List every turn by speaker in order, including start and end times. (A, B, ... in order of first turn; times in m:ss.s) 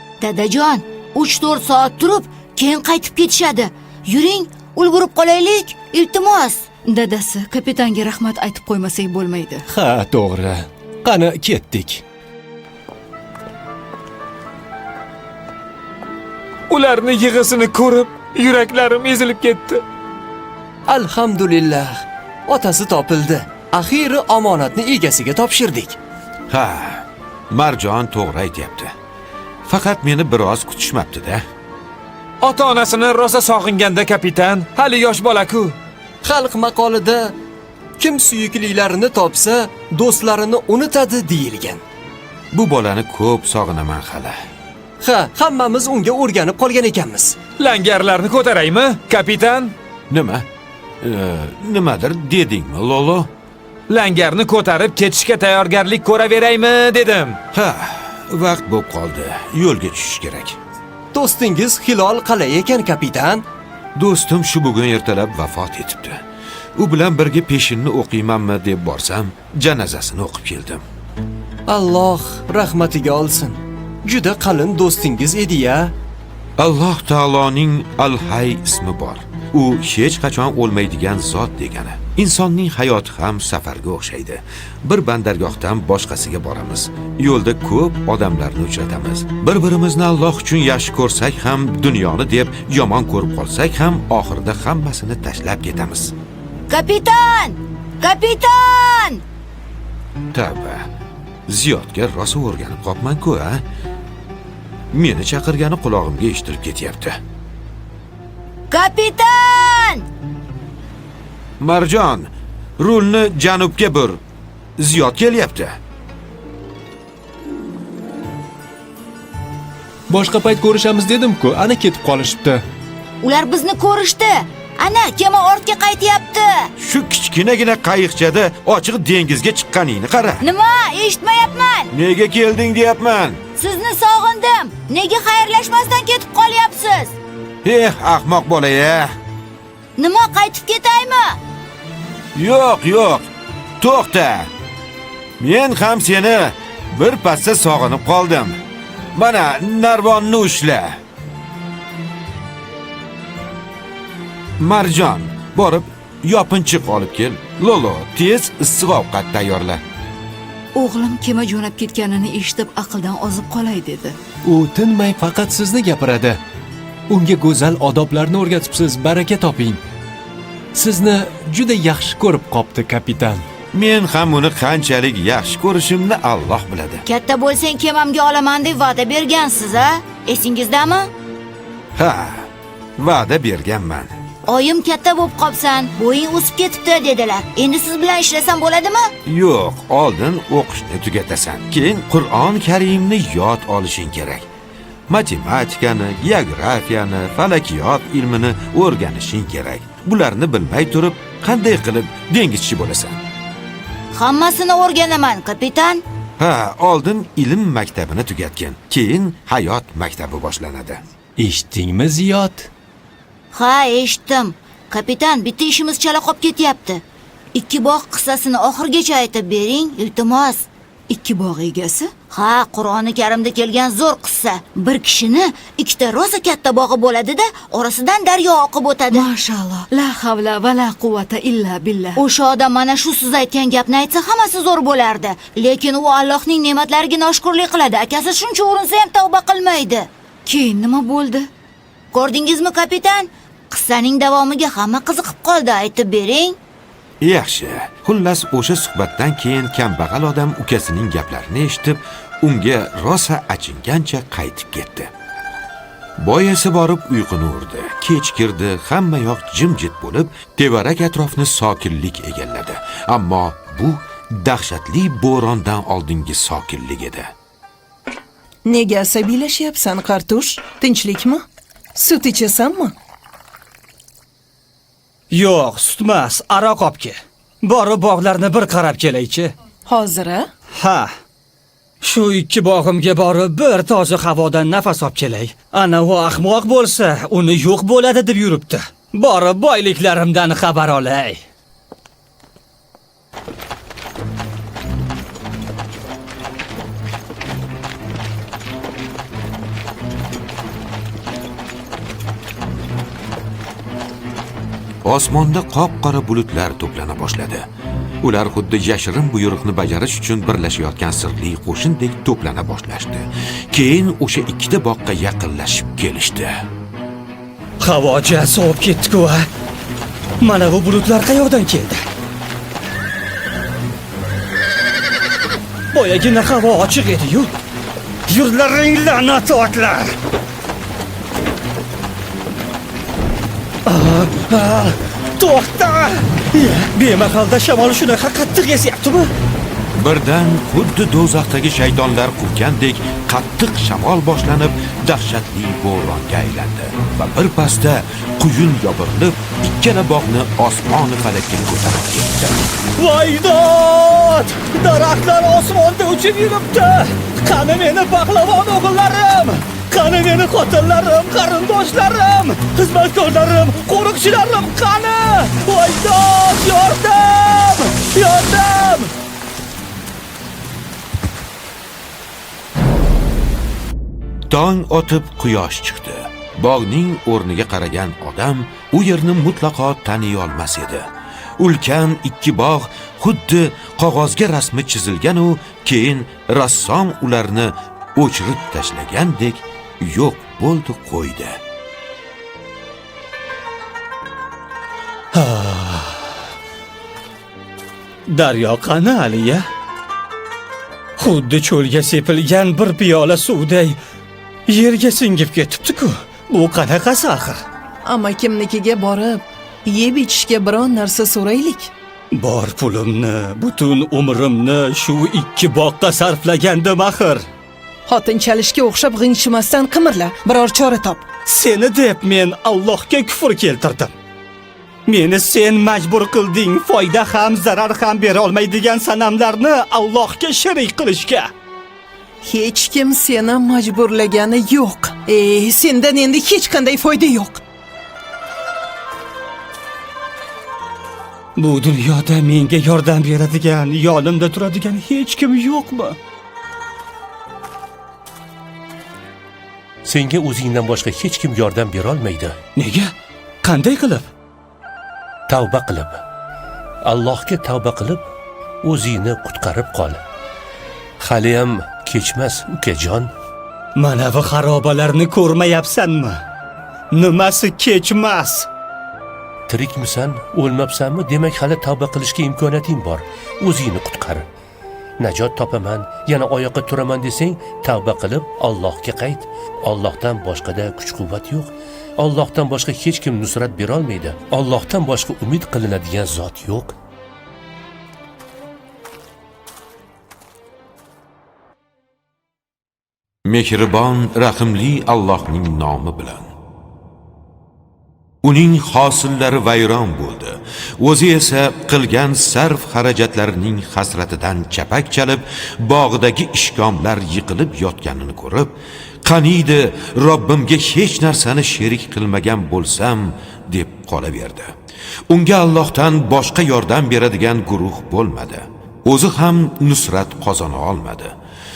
0:00.2-0:06.7 A
0:06.8-0:09.6 B
0:09.7-0:12.0 C
0:16.7-0:19.8 D
0:20.9-0:26.0 E
0:26.5-0:28.9 F
0:29.6-0:31.4 F
0:32.4-0:35.8 D
0:36.2-0:37.3 E
0:38.0-0:41.8 E
0:42.5-0:44.3 F
0:45.0-0:47.4 E
0:47.6-0:49.7 D
0:50.1-0:50.4 F
0:51.0-0:53.3 F
0:53.9-0:57.4 D
0:57.5-1:00.6 F
1:01.1-1:03.4 E
1:04.0-1:06.2 F
1:06.8-1:10.8 F
1:11.7-1:15.9 E
1:16.6-1:36.1 F
1:36.7-1:39.2 A
1:40.3-1:40.8 F
1:41.5-1:43.6 F
1:44.9-1:47.2 F
1:48.7-1:50.0 A
1:51.6-1:54.2 F
1:54.8-1:55.7 F
2:00.1-2:02.6 C
2:03.2-2:06.7 A
2:06.8-2:10.4 F
2:10.4-2:11.9 A
2:11.9-2:13.4 F
2:13.6-2:17.1 A
2:17.6-2:19.1 F
2:20.0-2:21.4 A
2:22.3-2:23.2 F
2:23.8-2:24.5 F
2:25.4-2:28.6 F
2:29.1-2:31.0 F
2:34.6-2:39.8 F
2:40.7-2:44.2 B
2:44.4-2:46.4 C
2:47.1-2:49.8 C
2:50.7-2:53.4 C
2:53.7-2:57.0 F
2:57.0-3:01.1 A
3:02.0-3:04.1 F
3:04.5-3:09.1 A
3:09.2-3:14.5 F
3:15.1-3:23.2 F
3:24.1-3:26.0 A
3:26.4-3:31.0 F
3:31.4-3:32.7 C
3:33.5-3:37.0 A
3:37.5-3:40.6 A
3:41.1-3:42.1 B
3:42.3-3:49.3 A
3:49.1-3:52.2 B
3:52.2-4:00.1 A
4:00.4-4:01.5 B
4:02.1-4:06.6 A
4:07.2-4:15.1 F
4:16.2-4:27.3 F
4:28.6-4:32.9 G
4:35.3-4:39.5 H
4:39.9-4:40.5 G
4:40.7-4:41.1 H
4:42.0-4:51.4 H
5:05.0-5:07.6 F
5:08.2-5:16.5 F
5:17.8-5:19.5 H
5:20.4-5:22.0 H
5:25.9-5:27.5 H
5:28.3-5:30.1 H
5:33.8-5:39.3 H
5:40.0-5:52.6 F
5:53.0-6:09.1 H
6:14.5-6:31.6 F
6:35.3-6:36.3 H
6:38.3-6:39.7 H
6:41.2-6:44.0 H
6:44.7-6:47.6 H
6:48.0-6:51.9 G
6:52.3-6:57.4 H
6:58.1-7:01.2 G
7:01.4-7:04.1 H
7:05.0-7:11.5 H
7:12.4-7:17.6 G
7:21.6-7:26.2 H
7:30.0-7:32.6 I
7:32.8-7:34.2 H
7:35.5-7:36.2 I
7:37.0-7:38.2 I
7:38.8-7:40.2 I
7:41.2-7:43.3 I
7:44.0-7:46.4 H
7:47.1-7:48.7 H
7:49.7-7:54.4 I
7:55.2-8:06.9 I
8:13.4-8:16.5 F
8:18.4-8:34.7 F
8:35.3-8:41.3 F